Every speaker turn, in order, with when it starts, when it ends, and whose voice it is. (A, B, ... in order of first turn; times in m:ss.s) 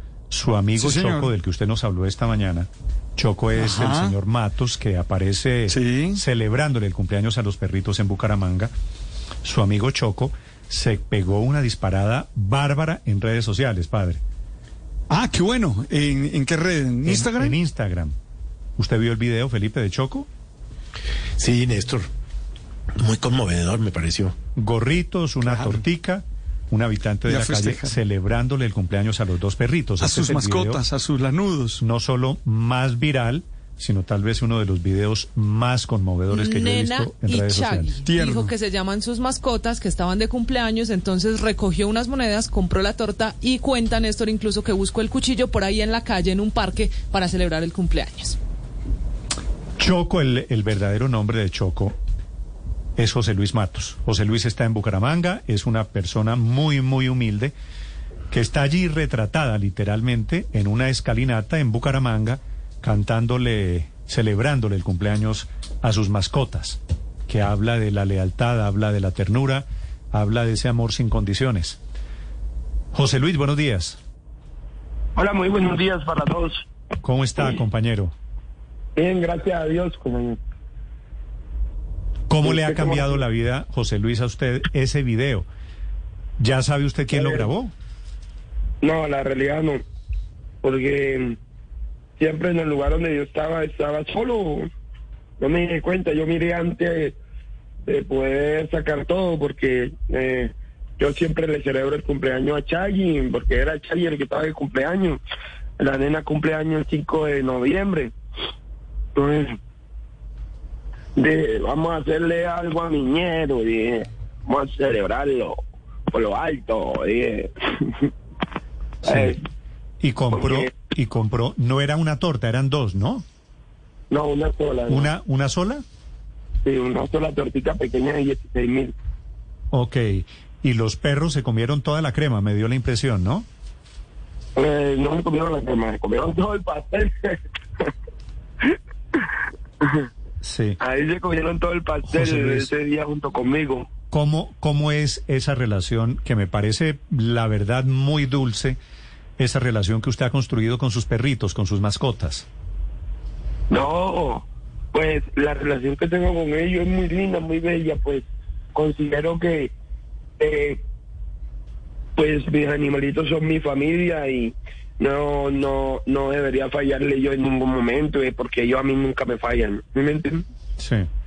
0:00.3-0:08.7 A
0:00.8-0:01.3 B
0:03.6-0:04.2 B
0:05.7-0:06.2 B
0:09.4-0:14.2 A
0:15.1-0:17.6 B
0:17.0-0:18.1 A
0:18.8-0:20.3 A
0:21.4-0:22.1 C
0:23.0-0:24.3 C
0:24.6-0:30.8 A
0:25.4-0:25.8 B
0:27.3-0:28.0 B
0:30.0-0:31.8 B
0:31.8-0:37.9 A
0:36.3-0:48.4 D
0:38.0-0:38.6 B
0:49.8-0:52.0 A
0:53.0-0:57.5 A
0:58.3-1:11.8 A
1:12.9-1:14.0 A
1:15.2-1:16.6 E
1:17.0-1:18.1 A
1:19.0-1:20.4 E
1:22.3-1:25.5 A
1:22.4-1:23.2 E
1:26.4-1:27.7 A
1:27.1-1:27.5 E
1:28.8-1:29.8 E
1:30.6-1:31.4 E
1:32.2-1:34.7 E
1:35.4-1:37.2 E
1:37.9-1:45.2 E
1:45.8-1:48.1 E
1:49.2-1:49.5 E
1:51.2-1:58.1 E
1:59.0-1:59.4 A
1:59.0-1:59.4 E
2:00.0-2:03.2 A
2:00.3-2:00.7 E
2:04.1-2:05.1 E
2:04.9-2:05.8 A
2:06.6-2:08.9 E
2:09.7-2:13.5 A
2:14.6-2:17.9 E
2:18.6-2:19.2 E
2:19.8-2:20.1 E
2:20.4-2:20.8 A
2:20.8-2:23.9 E
2:22.1-2:22.7 A
2:24.1-2:28.8 A
2:29.4-2:32.5 A
2:33.7-2:39.7 E
2:40.4-2:40.8 E
2:42.2-2:50.4 E
2:50.8-2:51.1 A